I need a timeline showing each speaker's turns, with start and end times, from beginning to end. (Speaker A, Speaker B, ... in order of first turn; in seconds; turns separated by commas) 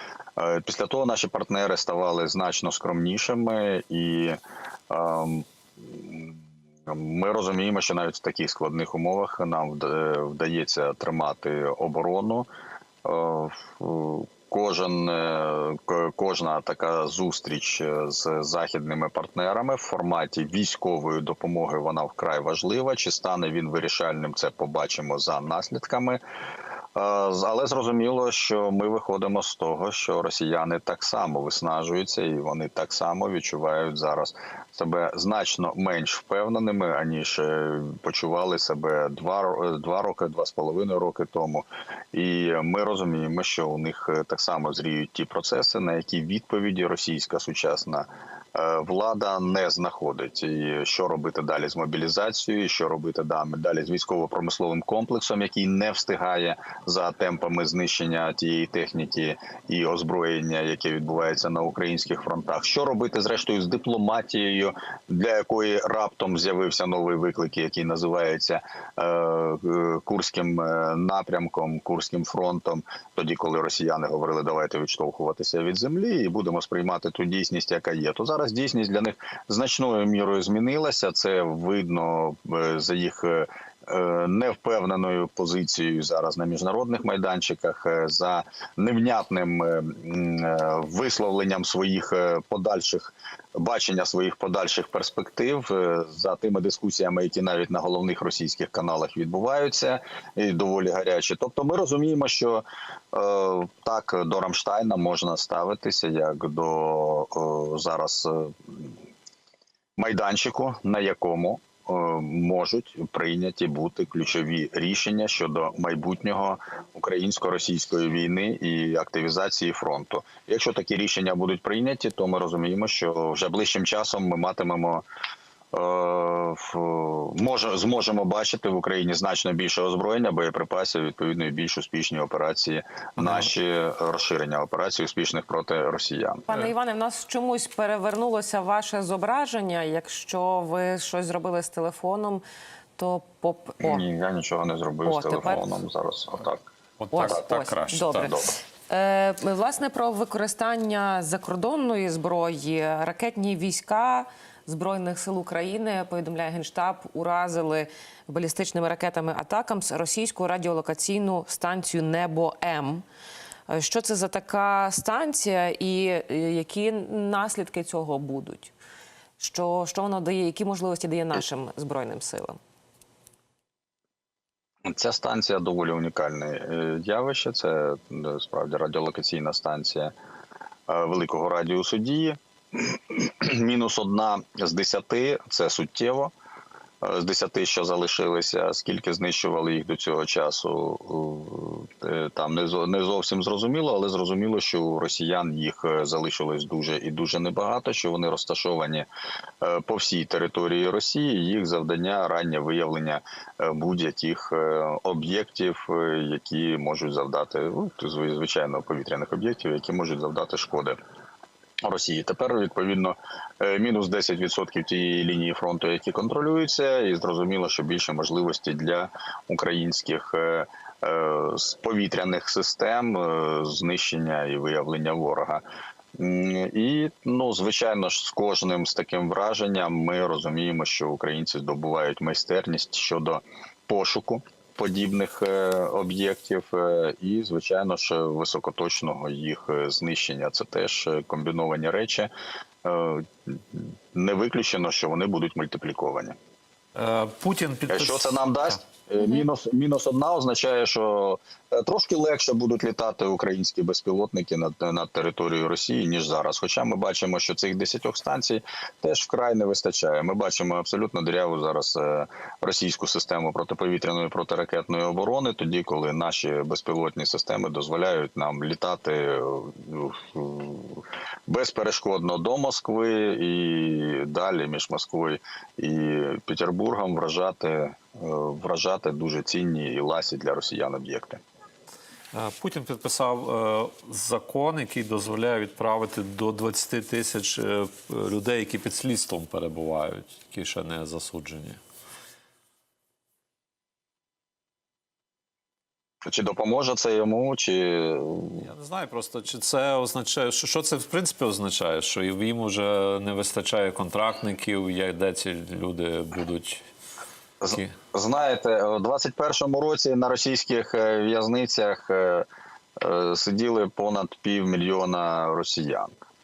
Speaker A: 0.4-4.4, Speaker A: 4.9-12.5, Speaker A: 13.0-26.2, Speaker A: 26.9-109.0, Speaker A: 110.0-125.0, Speaker A: 125.7-136.5, Speaker B: 133.2-133.5, Speaker C: 136.5-142.4, Speaker C: 142.9-144.0, Speaker A: 143.8-146.7, Speaker C: 145.0-145.8, Speaker B: 147.0-148.3, Speaker C: 147.1-163.0, Speaker A: 148.2-148.5, Speaker C: 163.7-168.7, Speaker C: 169.4-172.6, Speaker A: 174.8-180.1, Speaker A: 180.9-186.3, Speaker A: 187.0-199.1, Speaker A: 199.6-211.0, Speaker A: 211.8-225.6, Speaker A: 226.2-242.3, Speaker A: 242.8-246.3, Speaker B: 246.9-248.8, Speaker A: 247.9-281.4, Speaker B: 282.3-291.8, Speaker A: 296.2-298.6, Speaker B: 298.6-306.8, Speaker A: 307.6-312.4, Speaker A: 313.0-316.1